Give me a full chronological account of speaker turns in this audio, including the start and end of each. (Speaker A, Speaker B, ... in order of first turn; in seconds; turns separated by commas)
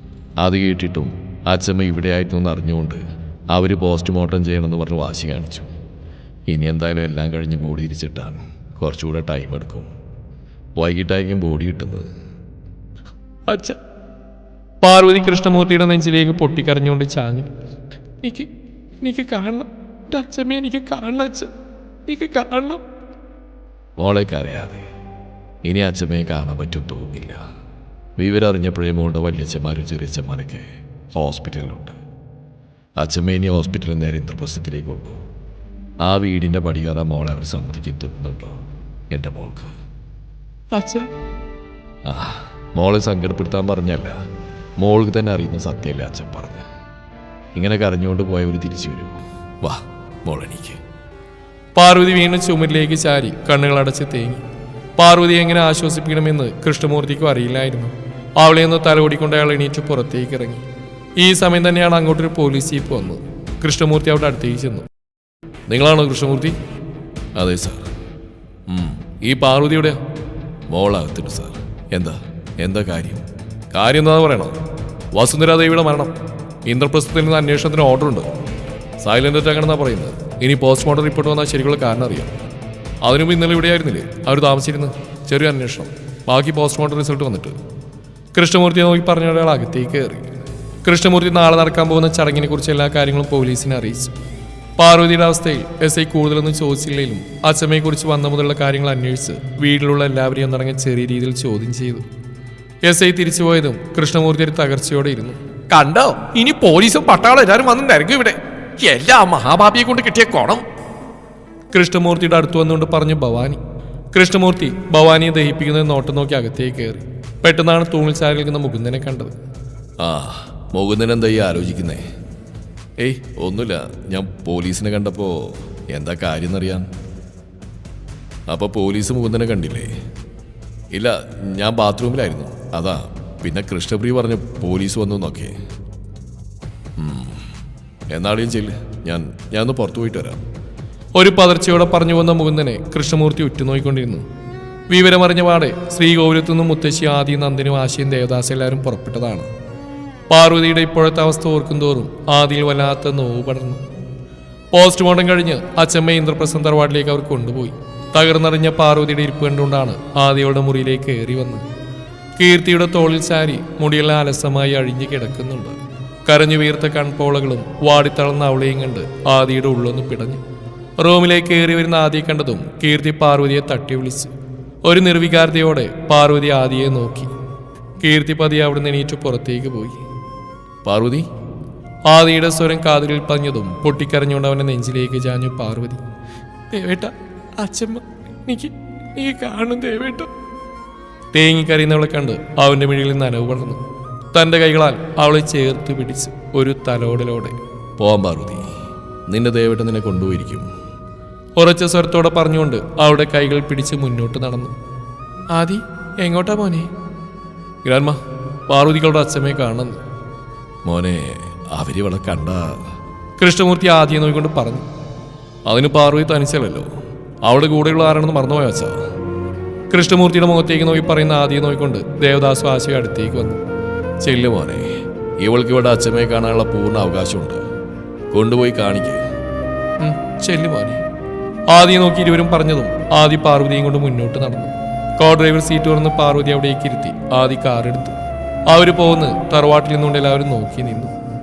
Speaker A: 0.4-3.0, Speaker A: 3.5-5.7, Speaker A: 6.5-9.9, Speaker A: 10.8-12.1, Speaker B: 13.5-13.8, Speaker B: 14.8-17.5, Speaker B: 18.2-18.5, Speaker B: 19.0-21.5, Speaker B: 22.1-22.8, Speaker A: 24.0-24.8, Speaker A: 25.6-27.4, Speaker A: 28.2-32.0, Speaker A: 33.0-35.2, Speaker A: 36.0-38.6, Speaker A: 39.1-39.7, Speaker B: 40.7-41.1, Speaker A: 42.0-44.2, Speaker A: 44.8-46.6, Speaker A: 47.5-50.8, Speaker B: 51.8-54.5, Speaker B: 55.0-60.6, Speaker B: 61.2-64.9, Speaker B: 65.7-66.6, Speaker A: 67.4-67.9, Speaker A: 68.7-69.0, Speaker B: 69.1-70.0, Speaker A: 70.7-73.2, Speaker B: 73.7-74.5, Speaker B: 75.1-76.1, Speaker B: 76.7-78.3, Speaker B: 79.0-82.3, Speaker B: 83.0-87.6, Speaker B: 88.3-94.1, Speaker B: 94.8-102.0, Speaker B: 102.8-110.6, Speaker B: 111.7-113.6, Speaker B: 114.1-119.3, Speaker A: 120.0-122.0, Speaker A: 123.0-126.9, Speaker A: 128.5-129.9, Speaker A: 130.9-135.5, Speaker A: 137.0-137.4, Speaker A: 138.1-140.4, Speaker B: 141.2-144.2, Speaker B: 144.9-149.5, Speaker B: 150.3-153.8, Speaker B: 154.7-161.6, Speaker B: 162.4-170.4, Speaker B: 171.0-174.3, Speaker B: 174.8-177.3, Speaker B: 178.0-180.0, Speaker A: 180.9-181.2, Speaker B: 182.1-186.0, Speaker B: 186.7-190.3, Speaker B: 191.3-193.8, Speaker B: 194.3-197.6, Speaker A: 198.0-198.7, Speaker A: 199.3-200.7, Speaker B: 201.6-204.7, Speaker B: 205.5-206.9, Speaker B: 207.8-210.0, Speaker A: 210.8-212.8, Speaker B: 213.4-214.9, Speaker B: 215.7-216.9, Speaker B: 217.4-219.0, Speaker B: 219.9-223.6, Speaker A: 224.2-224.9, Speaker A: 225.4-227.6, Speaker A: 228.3-229.2, Speaker B: 230.0-231.0, Speaker B: 231.7-238.2, Speaker B: 238.7-241.1